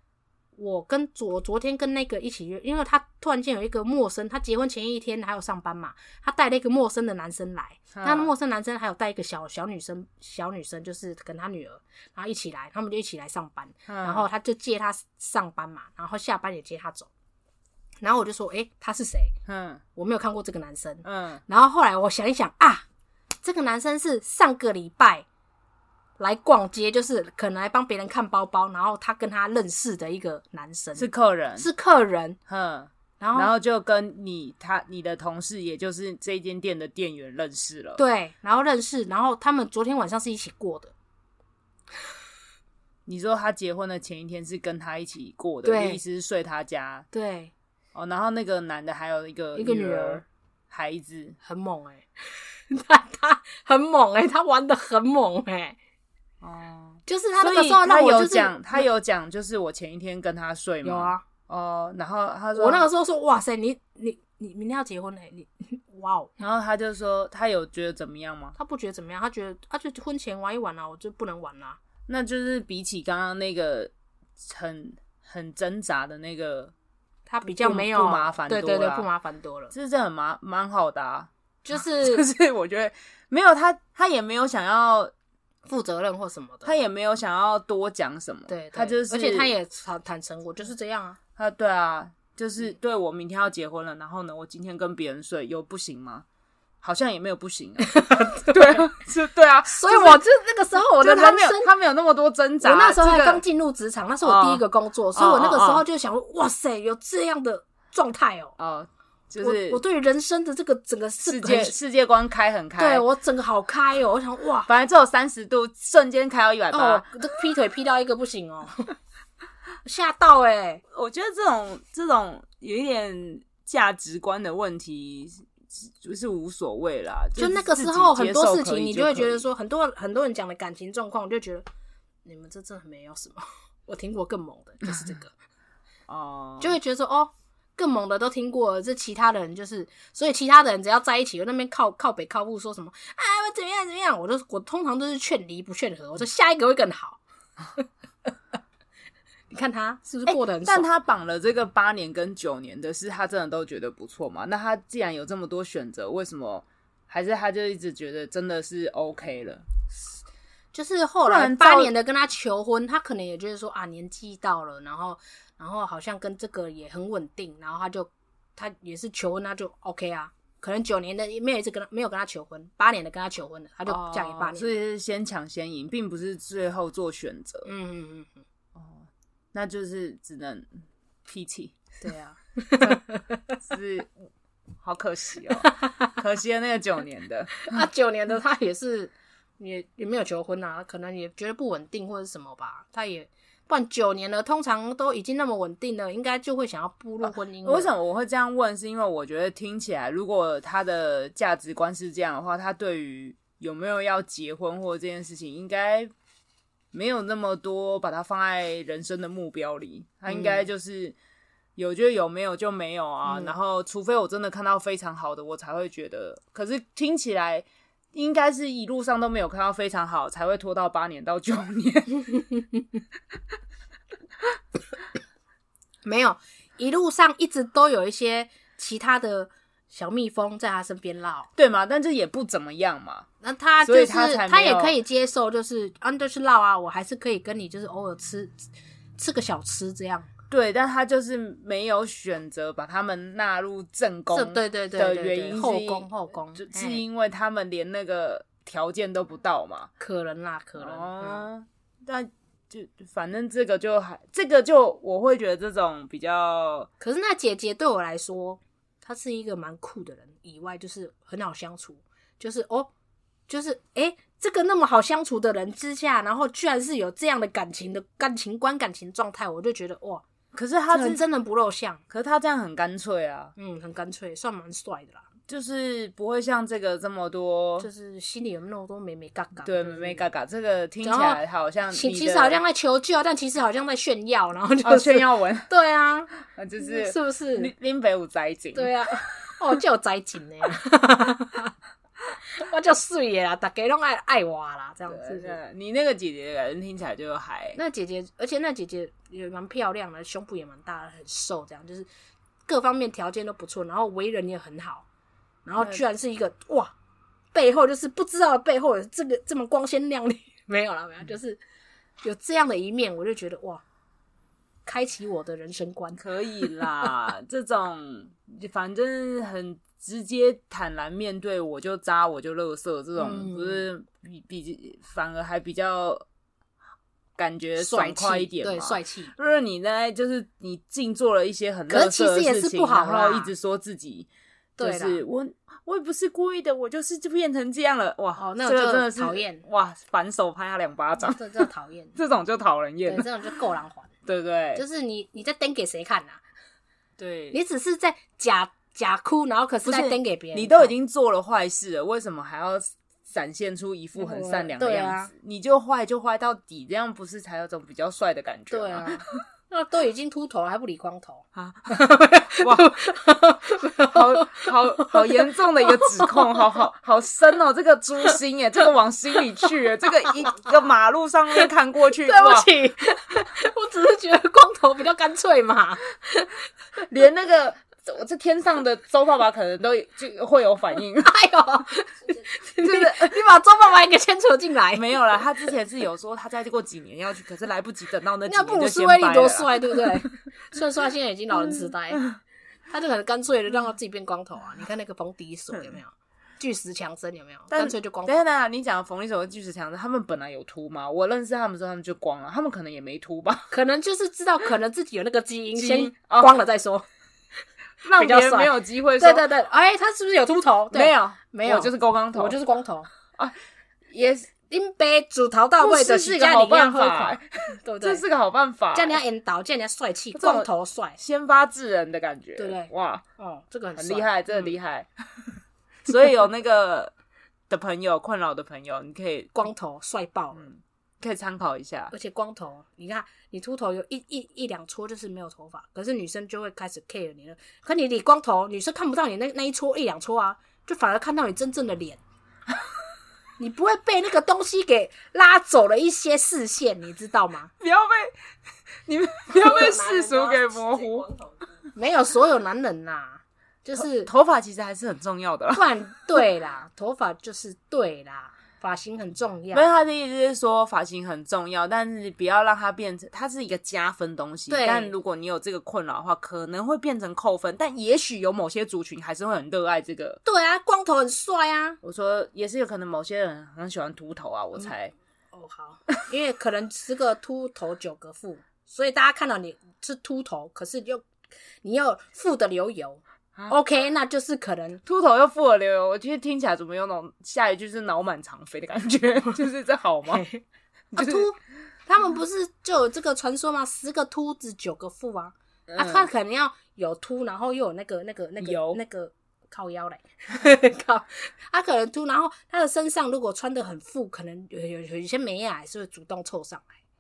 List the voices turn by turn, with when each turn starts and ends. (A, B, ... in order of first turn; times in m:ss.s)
0:00.6-0:17.1 A
0:07.9-0:08.3 B
0:13.9-0:14.2 B
0:18.0-0:19.3 A
0:19.4-0:19.8 B
0:20.0-0:22.8 A
0:21.0-0:21.4 B
0:23.4-0:25.2 A
0:26.2-0:32.4 A
0:31.0-0:31.7 B
0:32.5-0:38.0 B
0:33.2-0:33.5 A
0:38.0-0:40.9 A
0:43.0-0:47.0 B
0:45.6-0:46.0 A
0:47.1-0:47.5 A
0:47.9-0:51.4 B
0:49.5-0:50.2 A
0:51.4-0:55.8 A
0:56.4-1:02.8 B
0:57.1-0:58.8 A
1:00.8-1:01.2 A
1:02.5-1:06.4 A
1:06.4-1:08.6 B
1:08.6-1:11.8 A
1:12.1-1:16.7 B
1:17.3-1:19.7 A
1:17.4-1:19.1 B
1:19.7-1:25.1 B
1:21.6-1:22.2 A
1:25.6-1:26.7 A
1:26.6-1:29.5 B
1:28.5-1:31.2 A
1:31.4-1:36.2 B
1:36.8-1:40.2 B
1:37.8-1:38.9 A
1:39.6-1:41.7 A
1:41.0-1:43.4 B
1:42.6-1:48.6 A
1:44.2-1:45.8 B
1:48.6-1:49.8 B
1:49.4-1:51.7 A
1:51.2-1:53.0 B
1:52.8-1:54.7 A
1:54.6-1:57.1 B
1:56.7-1:58.9 A
1:59.8-2:00.8 A
2:00.9-2:09.4 B
2:07.4-2:11.7 A
2:12.2-2:15.3 A
2:16.1-2:16.8 B
2:16.6-2:27.2 A
2:29.5-2:30.9 A
2:30.3-2:39.6 B
2:40.7-2:54.7 A
2:41.2-2:41.9 B
2:53.9-2:57.7 B
2:57.6-2:58.4 A
2:58.7-3:01.8 B
3:02.0-3:03.5 A
3:03.6-3:04.2 B
3:04.8-3:07.8 B
3:05.6-3:05.9 A
3:07.6-3:17.9 A
3:17.2-3:26.1 B
3:26.9-3:31.2 B
3:30.3-3:30.6 A
3:31.8-3:42.4 B
3:33.3-3:33.5 A
3:46.0-3:51.5 A
3:51.6-3:53.3 B
3:53.4-4:00.3 A
3:53.8-3:55.0 B
4:00.5-4:09.9 B
4:04.3-4:07.0 A
4:10.0-4:11.4 A
4:10.8-4:16.9 B
4:17.0-4:22.9 A
4:23.5-4:30.2 A
4:30.5-4:31.2 B
4:30.9-4:32.0 A
4:32.1-4:33.5 B
4:33.6-4:35.2 A
4:35.5-4:37.9 B
4:37.8-4:40.2 A
4:39.6-4:42.6 B
4:41.0-4:41.4 A
4:41.9-4:47.7 A
4:44.8-4:45.7 B
4:46.5-4:48.9 B
4:48.7-4:51.7 A
4:52.4-4:55.6 A
4:55.1-4:57.8 B
4:57.7-5:02.1 A
5:02.7-5:05.0 A
5:05.6-5:06.9 A
5:07.5-5:11.6 A
5:12.2-5:13.8 A
5:14.8-5:17.0 A
5:16.2-5:26.2 B
5:23.2-5:23.8 A
5:27.4-5:34.3 B
5:27.8-5:29.3 A
5:31.9-5:33.5 A
5:34.8-5:35.2 A
5:34.8-5:41.5 B
5:38.4-5:39.6 A
5:41.2-5:42.1 A
5:42.1-5:43.3 B
5:43.0-5:44.1 A
5:44.2-5:44.8 B
5:44.7-5:46.4 A
5:47.2-5:47.6 B
5:47.5-5:50.9 A
5:49.8-5:59.2 B
5:54.2-5:55.3 A
5:58.7-6:06.6 A
6:01.5-6:03.0 B
6:04.0-6:12.7 B
6:12.2-6:16.6 A
6:17.0-6:21.3 B
6:21.2-6:25.2 A
6:22.8-6:23.4 B
6:24.9-6:30.3 B
6:28.5-6:32.3 A
6:31.5-6:32.4 B
6:32.9-6:38.4 A
6:37.7-6:43.7 B
6:43.7-6:47.0 A
6:45.7-6:46.6 B
6:48.0-6:49.4 B
6:48.1-6:53.1 A
6:50.9-6:52.6 B
6:54.1-6:54.5 B
6:54.7-6:58.2 A
6:55.8-6:59.2 B
6:58.9-7:01.2 A
7:00.3-7:03.2 B
7:02.6-7:04.7 A
7:04.0-7:05.5 B
7:06.1-7:07.1 B
7:07.7-7:09.5 B
7:09.5-7:10.7 A
7:10.5-7:12.1 B
7:12.1-7:22.2 A
7:23.6-7:27.7 A
7:27.8-7:28.3 B
7:29.0-7:31.3 B
7:29.5-7:31.8 C
7:31.9-7:34.3 A
7:33.9-7:35.8 B
7:35.7-7:39.9 A
7:39.7-7:50.4 B
7:44.7-7:45.1 A
7:50.4-7:52.0 A
7:52.0-7:55.1 B
7:55.5-8:01.3 A
8:01.8-8:05.0 A
8:05.0-8:10.4 B
8:10.3-8:10.6 A
8:11.1-8:11.5 B
8:11.1-8:26.9 A
8:15.9-8:16.3 B
8:18.6-8:19.0 B